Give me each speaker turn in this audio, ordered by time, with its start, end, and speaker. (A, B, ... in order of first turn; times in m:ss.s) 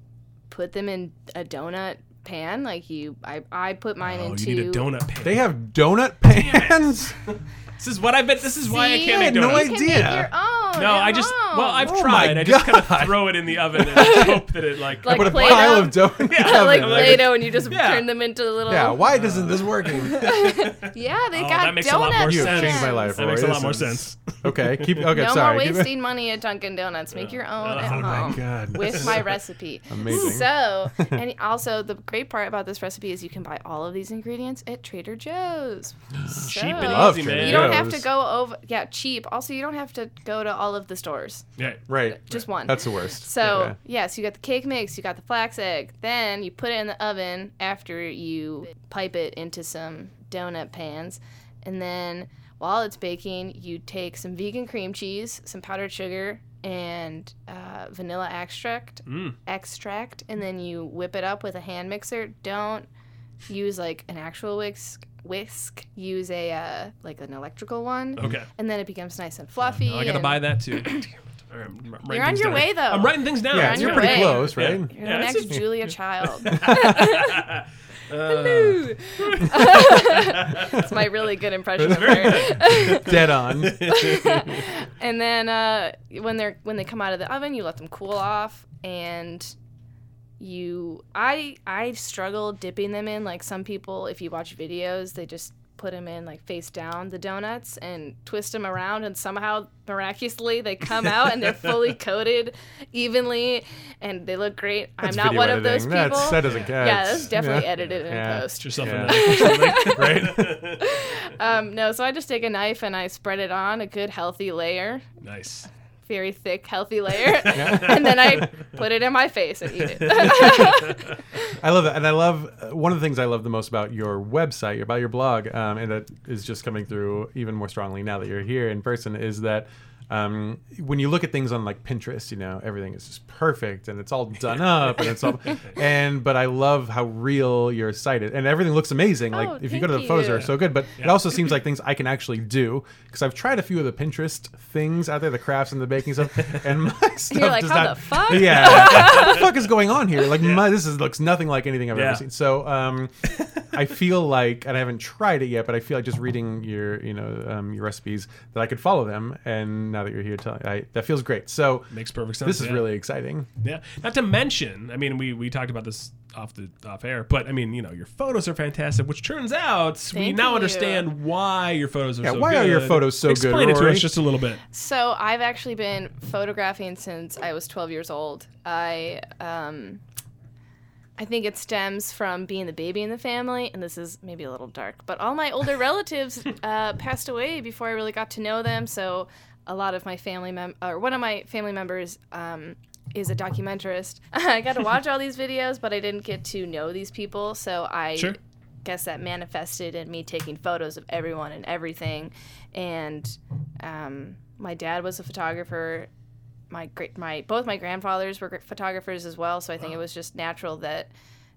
0:00.5-0:04.9 A
0:04.0-0:05.5 B
0:05.2-0:07.2 C
0:06.3-0:09.7 B
0:08.6-0:11.9 A
0:09.1-0:10.3 C
0:10.7-0:18.1 B
0:11.8-0:14.3 C
0:13.9-0:14.4 A
0:15.0-0:19.1 A
0:15.0-0:17.6 C
0:18.7-0:20.3 C
0:19.1-0:25.0 B
0:19.6-0:23.2 A
0:22.2-0:25.9 C
0:25.1-0:41.4 A
0:27.1-0:29.1 B
0:27.8-0:29.3 C
0:29.9-0:31.2 C
0:36.3-0:38.0 C
0:36.5-0:38.0 B
0:41.6-0:42.3 B
0:41.9-0:43.8 C
0:42.2-1:02.9 A
0:59.0-0:59.4 B
1:03.5-1:11.1 A
1:08.2-1:08.5 B
1:09.7-1:15.9 B
1:12.1-1:17.4 A
1:13.5-1:15.8 C
1:16.4-1:17.1 C
1:16.5-1:21.0 B
1:18.1-1:23.3 A
1:21.8-1:23.9 C
1:21.8-1:24.6 B
1:23.8-1:29.5 A
1:30.4-1:55.0 A
1:45.0-1:50.6 C
1:48.6-1:50.9 B
1:55.2-1:55.7 B
1:56.0-2:01.2 A
1:57.5-1:58.1 C
2:00.0-2:01.2 B
2:01.6-2:41.9 C
2:15.2-2:15.8 B
2:19.3-2:20.5 A
2:21.0-2:21.2 B
2:27.3-2:29.5 A
2:28.6-2:29.4 B
2:31.9-2:32.2 B
2:33.2-2:33.8 B
2:41.9-2:42.9 B
2:42.4-2:43.5 C
2:43.6-2:54.6 B
2:50.1-2:51.1 A
2:52.2-2:54.2 C
2:54.7-3:00.0 A
3:01.2-3:26.1 A
3:26.7-3:31.1 A